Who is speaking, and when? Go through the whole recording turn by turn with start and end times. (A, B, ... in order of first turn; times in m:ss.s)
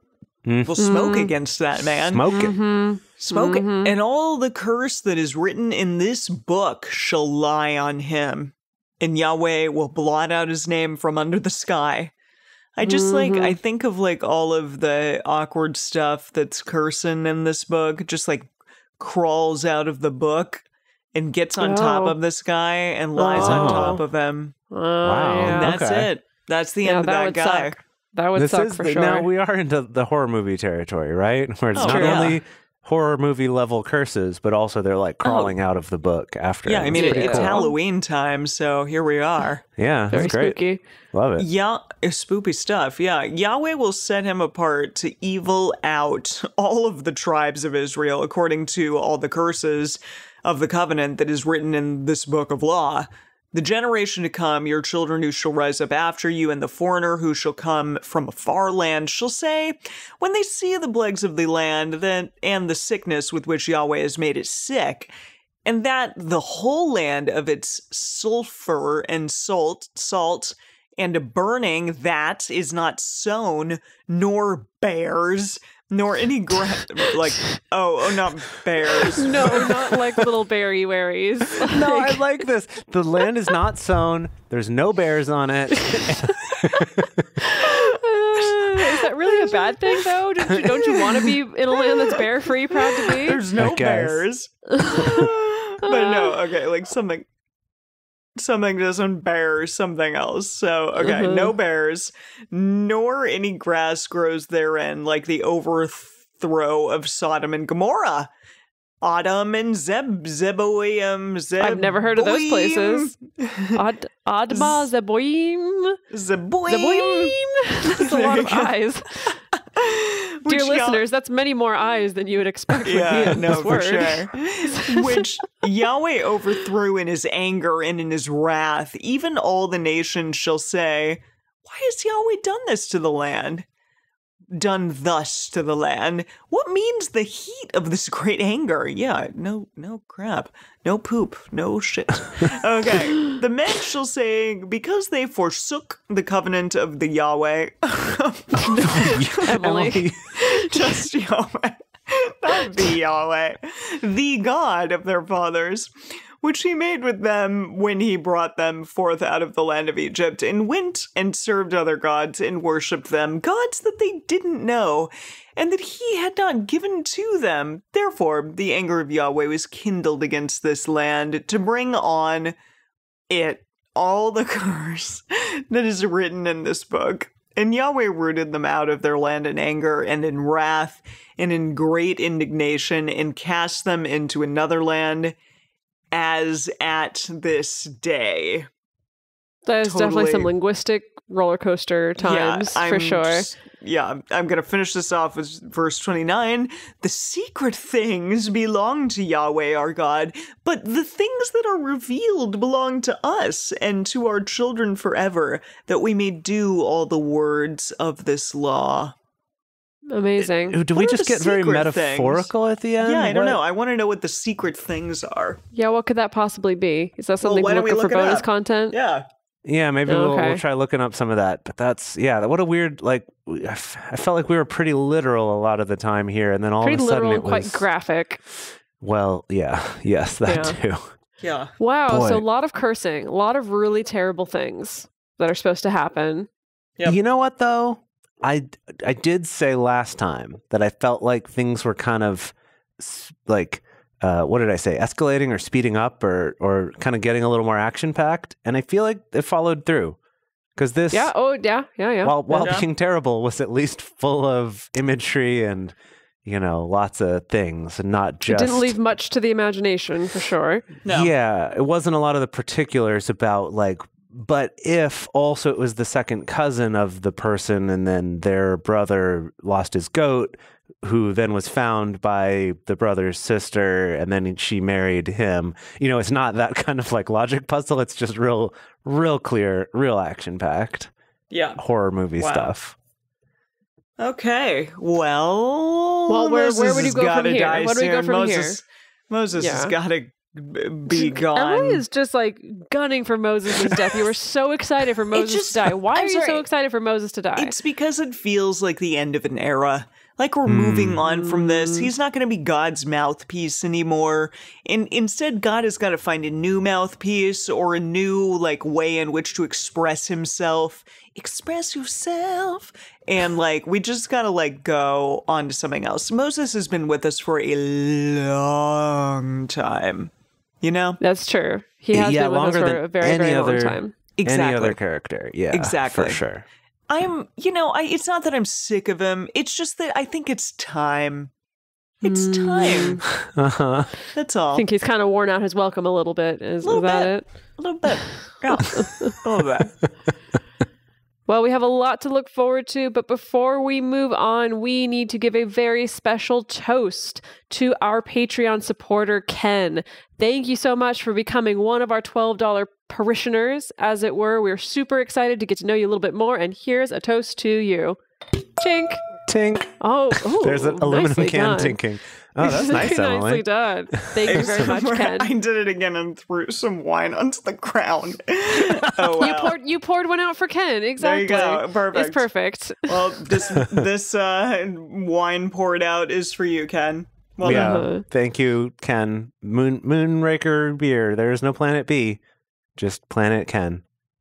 0:00.4-0:00.8 A
0:00.7-0:02.4 B
0:00.8-0:01.3 C
0:02.1-0:02.6 A
0:02.3-0:04.0 C
0:03.2-0:12.1 B
0:12.8-0:24.6 B
0:12.8-0:13.6 C
0:21.6-0:22.2 C
0:23.2-0:24.0 C
0:23.4-0:24.0 A
0:24.7-0:25.7 C
0:25.0-0:26.1 A
0:25.5-0:27.8 B
0:26.8-0:29.3 C
0:28.4-0:37.7 A
0:31.8-0:32.3 C
0:31.8-0:32.4 B
0:35.2-0:35.6 B
0:36.7-0:39.6 B
0:36.9-0:37.7 C
0:39.8-0:40.6 A
0:40.1-0:40.8 C
0:41.1-0:41.5 A
0:41.4-1:05.1 B
1:05.6-1:19.8 B
1:19.0-1:22.2 C
1:19.4-1:20.2 A
1:21.6-1:27.5 A
1:25.9-1:26.3 C
1:27.4-1:33.4 C
1:29.0-1:29.4 B
1:32.8-1:37.3 B
1:33.6-1:34.2 A
1:34.8-1:35.3 C
1:35.8-1:36.4 C
1:38.4-1:48.3 B
1:41.0-1:41.5 C
1:49.0-1:53.8 B
1:51.6-1:53.1 C
1:53.7-1:56.0 C
1:54.5-1:54.8 B
1:56.1-1:57.4 B
1:56.7-1:59.4 C
1:57.9-1:58.7 B
1:59.5-2:01.0 B
2:00.5-2:05.2 C
2:02.8-2:13.7 B
2:14.5-2:29.6 B
2:28.7-2:31.1 C
2:28.8-2:30.2 A
2:30.3-2:52.6 B
2:53.3-3:05.4 B
3:06.1-3:08.7 B
3:09.7-3:13.5 C
3:09.8-3:10.5 B
3:12.2-3:29.1 B
3:30.1-3:30.8 C
3:30.7-3:33.6 A
3:30.9-3:35.6 B
3:35.7-3:39.0 C
3:37.4-3:39.2 B
3:39.6-3:47.9 A
3:40.1-3:40.6 C
3:46.8-3:48.4 C
3:49.0-3:51.1 A
3:50.5-3:50.8 C
3:51.4-3:51.7 B
3:51.8-3:56.5 C
3:52.1-3:52.4 A
3:57.0-4:10.2 A
4:10.8-4:11.3 A
4:11.1-4:12.8 C
4:12.2-4:19.0 A
4:12.6-4:12.9 B
4:18.5-4:20.9 C
4:21.0-4:21.3 B
4:21.1-4:41.1 A
4:41.5-4:41.8 B
4:41.8-4:43.0 A
4:42.4-4:42.7 B
4:44.2-4:52.0 B
4:46.3-4:48.8 C
4:49.6-4:49.9 C
4:51.1-4:57.8 C
4:53.8-4:54.2 B
4:55.3-4:56.6 B
4:57.6-5:20.3 B
5:00.7-5:01.2 A
5:01.3-5:02.1 C
5:20.8-5:21.2 B
5:21.2-5:24.2 C
5:22.1-5:26.6 A
5:24.4-5:25.0 B
5:25.7-5:26.4 B
5:27.1-5:31.5 B
5:32.2-5:33.3 B
5:32.2-5:33.2 C
5:33.5-5:34.1 A
5:34.3-5:34.8 B
5:34.8-5:37.8 C
5:36.8-5:40.0 B
5:38.9-5:39.3 C
5:41.5-5:58.2 C
5:58.8-5:59.2 C
5:59.5-6:04.8 A
6:00.0-6:02.0 C
6:02.6-6:05.5 C
6:04.4-6:09.8 B
6:08.8-6:09.3 A
6:09.4-6:13.5 C
6:11.2-6:12.5 B
6:13.1-6:18.1 B
6:17.6-6:22.4 A
6:17.7-6:18.2 C
6:23.0-6:24.0 A